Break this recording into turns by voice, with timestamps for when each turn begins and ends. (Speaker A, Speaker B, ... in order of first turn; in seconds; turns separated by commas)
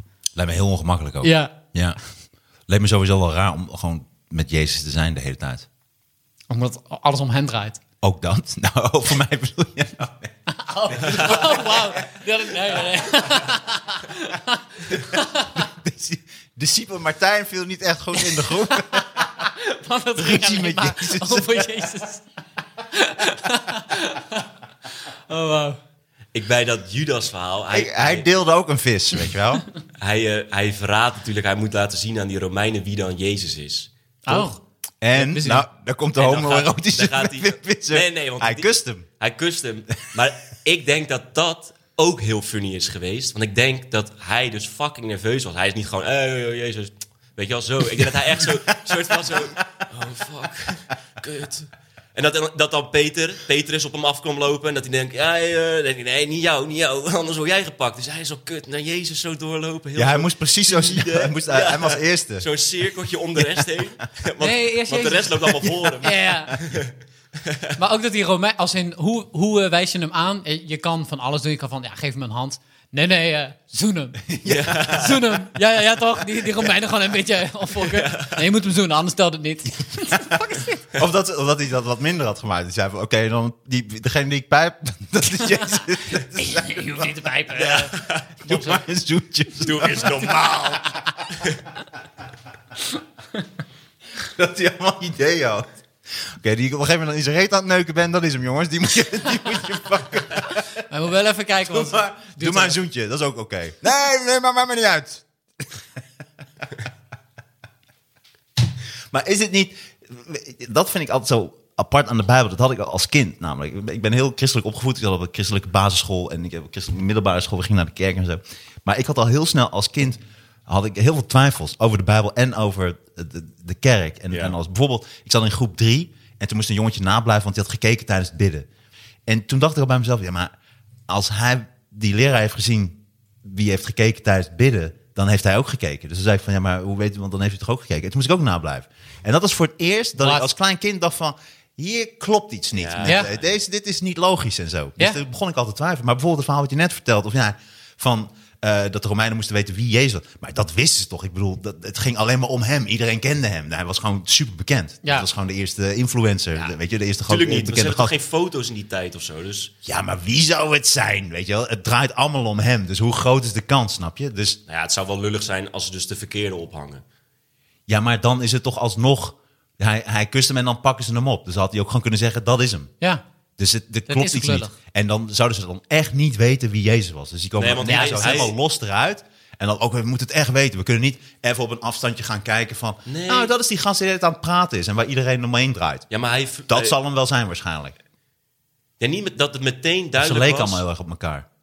Speaker A: 0.3-2.0, Speaker B: 1.2-1.5, Speaker A: 2.7-5.7, Speaker B: 6.5-7.8, Speaker A: 8.0-10.3, Speaker B: 10.5-15.7, Speaker A: 10.9-12.1, Speaker C: 11.1-11.4, Speaker A: 14.9-19.3, Speaker B: 18.2-22.2, Speaker A: 20.2-21.7, Speaker B: 22.9-24.5, Speaker B: 25.1-25.8, Speaker C: 26.3-28.3, Speaker A: 27.7-29.6, Speaker C: 30.0-33.9, Speaker B: 34.2-34.6, Speaker A: 35.0-39.0, Speaker B: 35.1-35.6, Speaker C: 36.2-66.9, Speaker A: 49.1-49.8, Speaker A: 59.9-62.5, Speaker A: 63.4-63.7, Speaker B: 64.4-65.4, Speaker A: 65.5-66.8, Speaker B: 66.0-66.5, Speaker C: 67.5-67.7, Speaker B: 67.8-74.2, Speaker A: 74.2-75.1, Speaker C: 74.5-75.2, Speaker B: 74.9-80.8, Speaker C: 77.8-78.4, Speaker A: 80.9-87.0, Speaker B: 85.6-87.9, Speaker C: 87.6-88.3, Speaker A: 88.4-90.4, Speaker B: 88.5-88.8, Speaker C: 89.6-91.6, Speaker A: 94.2-100.7, Speaker B: 100.5-102.8, Speaker A: 101.6-105.8, Speaker A: 109.1-128.7, Speaker C: 124.3-124.6, Speaker A: 129.2-130.5, Speaker A: 131.1-158.1, Speaker B: 140.2-140.5, Speaker C: 142.8-143.4, Speaker B: 143.0-143.3, Speaker C: 156.5-159.7, Speaker A: 159.8-164.6, Speaker C: 164.7-167.0, Speaker A: 167.9-172.9, Speaker A: 173.6-186.1, Speaker B: 174.1-174.7, Speaker C: 177.6-178.5, Speaker B: 177.8-178.5, Speaker C: 183.1-183.5, Speaker C: 186.1-186.9, Speaker A: 186.7-187.9, Speaker C: 189.0-190.8, Speaker A: 190.2-191.4